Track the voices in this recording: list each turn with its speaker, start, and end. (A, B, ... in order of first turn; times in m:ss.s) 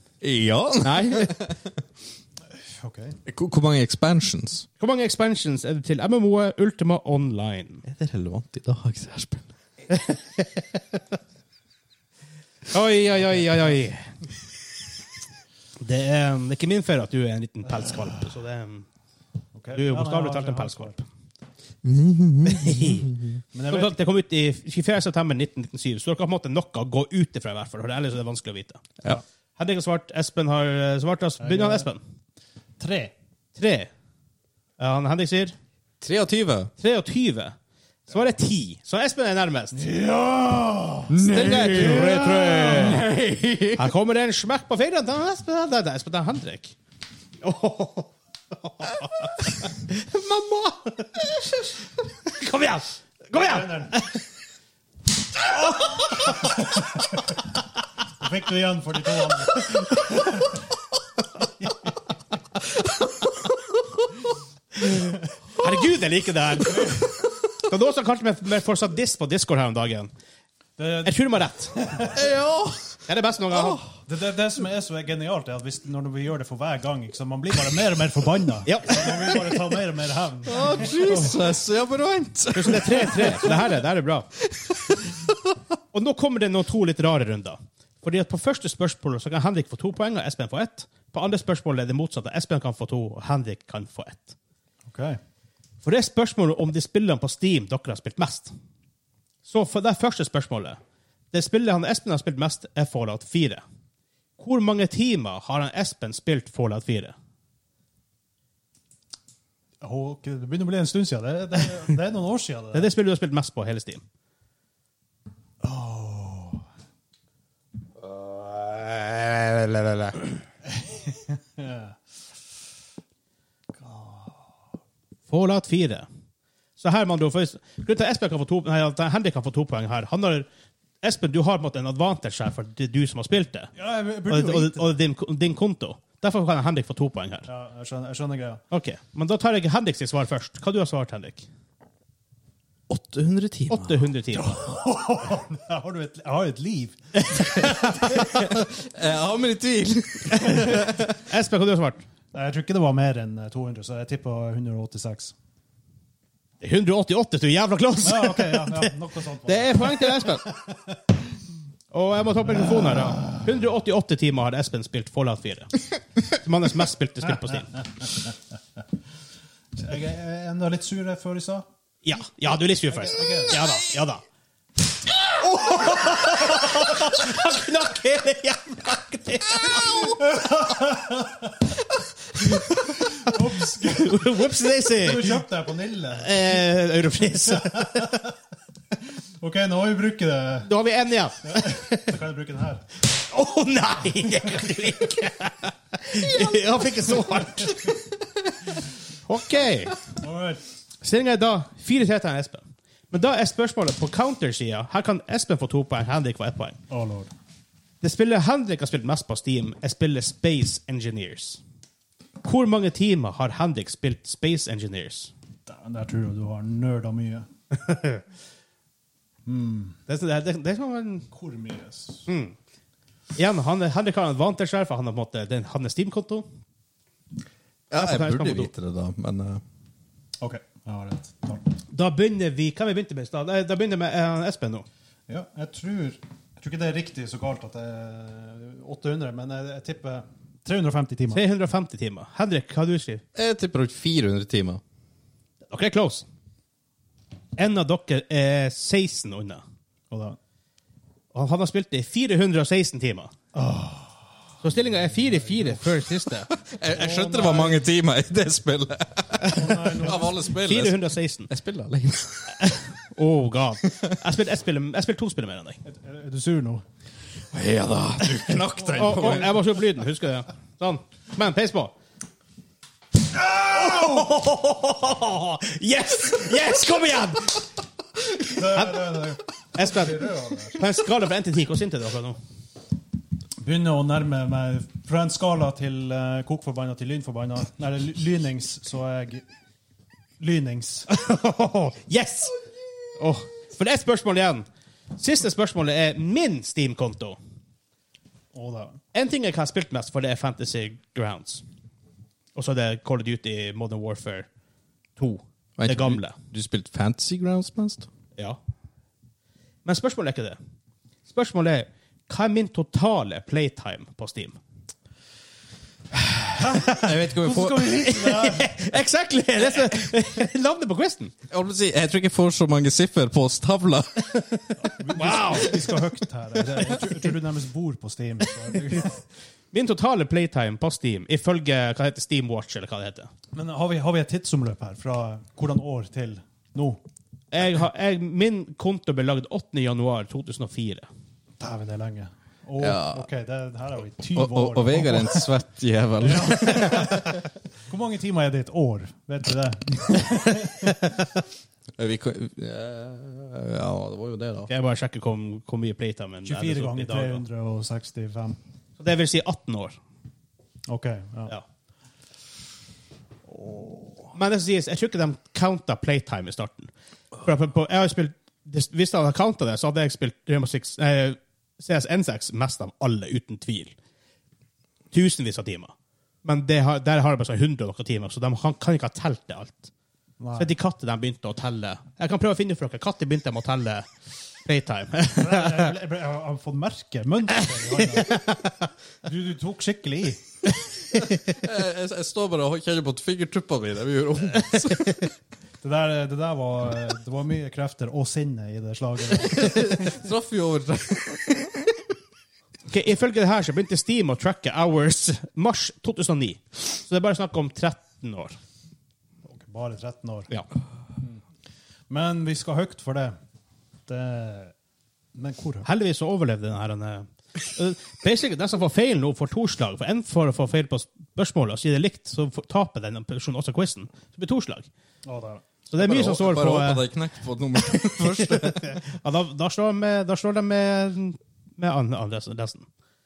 0:00.2-0:01.6 A
0:00.8-0:01.4 B
0:02.5-0:03.2 C
0:03.3-0:04.6 A
0:04.8-0:07.8 B
0:07.9-0:09.5 A
0:09.9-0:10.4 B
0:12.7-0:14.1 B
0:15.8-0:18.9 B
0:19.5-0:21.0 C
0:19.7-0:21.0 B
0:21.8-0:23.3 A
0:22.5-0:23.1 B
0:23.5-0:24.0 C
0:23.7-0:28.8 B
0:29.6-0:32.0 B
0:31.4-0:31.9 C
0:32.8-0:33.1 C
0:33.5-0:33.9 B
0:34.8-0:35.5 B
0:36.0-0:36.7 A
0:36.8-0:37.6 B
0:38.1-0:39.9 B
0:39.7-0:43.1 C
0:41.1-0:43.9 A
0:41.2-0:43.0 B
0:43.8-0:46.8 B
0:47.4-0:51.7 B
0:52.2-0:54.2 B
0:53.3-0:54.0 C
0:55.8-0:56.4 B
0:56.2-0:57.3 C
0:58.2-1:00.5 C
1:05.6-1:07.0 B
1:06.7-1:07.0 C
1:07.6-1:10.1 B
1:10.8-1:12.3 C
1:11.0-1:12.1 B
1:12.1-1:13.9 A
1:13.1-1:13.8 B
1:14.0-1:21.5 C
1:18.6-1:19.6 B
1:20.5-1:23.8 A
1:22.5-1:24.3 B
1:24.5-1:25.4 A
1:25.9-1:34.4 B
1:34.8-1:35.2 C
1:35.8-1:38.5 B
1:39.4-1:40.8 B
1:41.3-1:43.6 B
1:44.4-1:47.1 B
1:49.8-1:52.9 C
1:52.7-1:54.0 B
1:55.6-1:56.6 C
1:59.0-2:00.2 B
2:00.6-2:02.0 C
2:03.7-2:04.6 C
2:05.3-2:06.1 B
2:06.8-2:10.5 B
2:11.0-2:13.7 B
2:13.8-2:14.9 C
2:14.3-2:17.5 B
2:17.5-2:18.6 C
2:18.7-2:21.5 B
2:22.9-2:24.0 A
2:23.7-2:24.6 B
2:24.3-2:27.7 C
2:27.2-2:28.3 B
2:28.1-2:31.0 A
2:30.4-2:32.0 B
2:32.3-2:35.3 C
2:36.6-2:38.9 B
2:38.0-2:41.0 C
2:39.4-2:40.5 B
2:41.9-2:45.7 B
2:42.5-2:43.4 C
2:46.3-2:47.7 B
2:47.2-2:48.4 C
2:49.8-2:51.6 C
2:52.0-2:54.2 B
2:52.9-2:53.7 C
2:55.3-3:00.2 B
2:55.7-2:56.8 C
2:59.9-3:01.7 C
3:02.4-3:05.4 B
3:02.8-3:04.4 C
3:05.0-3:06.4 C
3:06.2-3:08.3 B
3:07.4-3:08.3 C
3:09.4-3:10.7 C
3:10.6-3:12.1 B
3:11.4-3:12.8 C
3:13.1-3:18.0 B
3:14.4-3:14.8 C
3:19.3-3:19.9 B
3:20.1-3:20.6 C
3:21.0-3:26.8 B
3:26.9-3:27.3 C
3:28.0-3:31.6 B
3:32.4-3:35.3 B
3:35.6-3:37.5 C
3:37.8-3:38.2 B
3:39.4-3:40.0 C
3:40.1-3:41.3 B
3:41.3-3:42.3 C
3:42.3-3:42.6 B
3:43.3-3:46.4 B
3:47.9-3:49.6 A
3:47.9-3:48.7 B
3:50.4-3:51.8 C
3:51.9-3:54.9 B
3:55.3-4:01.4 C
4:01.3-4:03.2 B
4:03.3-4:04.8 A
4:05.7-4:06.2 B
4:07.6-4:09.6 B
4:10.1-4:10.4 C
4:11.3-4:13.3 B
4:13.5-4:14.3 C
4:14.6-4:16.5 B
4:15.2-4:15.8 C
4:16.6-4:22.6 A
4:16.9-4:17.8 C
4:19.4-4:20.4 C
4:20.6-4:21.5 B
4:22.6-4:25.8 B
4:25.8-4:26.8 C
4:27.5-4:29.6 A
4:29.0-4:31.9 B
4:33.4-4:37.6 B
4:33.7-4:34.3 C
4:38.4-4:39.2 B
4:38.4-4:40.8 C
4:39.7-4:42.4 B
4:43.6-4:49.4 C
4:50.4-4:51.1 C
4:51.1-4:52.5 B
4:53.2-4:54.6 B
4:55.2-4:57.4 B
4:58.5-4:59.0 C
4:59.1-5:01.6 B
5:02.5-5:04.5 B
5:05.2-5:06.4 B
5:05.8-5:08.1 A
5:09.8-5:10.6 B
5:11.3-5:14.6 B
5:16.5-5:18.7 C
5:16.7-5:17.1 B
5:16.8-5:18.0 A
5:18.0-5:21.3 B
5:21.5-5:24.4 A
5:24.8-5:29.2 C
5:25.1-5:25.9 B
5:29.7-5:33.3 B
5:33.5-5:37.0 C
5:37.5-5:41.1 B
5:41.6-5:45.5 C
5:42.8-5:43.3 A
5:44.3-5:47.4 A
5:46.2-5:51.1 C
5:52.0-5:54.7 A
5:54.7-5:57.4 B
5:56.4-5:58.6 C
5:59.0-6:00.0 B
6:00.9-6:01.5 C
6:03.5-6:04.3 C
6:04.3-6:13.9 B
6:15.1-6:15.9 B
6:16.4-6:19.9 B
6:20.4-6:20.7 C
6:20.6-6:24.1 B
6:24.6-6:25.9 B
6:25.3-6:28.4 C
6:27.6-6:28.8 B
6:29.2-6:30.4 C
6:31.5-6:35.2 A
6:35.8-6:40.2 C
6:39.4-6:42.0 A
6:42.9-6:48.6 B
6:49.4-6:50.5 C
6:52.1-6:53.3 C
6:54.1-6:54.7 C
6:55.3-6:55.9 C
6:55.8-7:04.9 B
7:05.2-7:05.6 C
7:05.9-7:07.0 B
7:06.0-7:09.0 A
7:07.9-7:12.9 B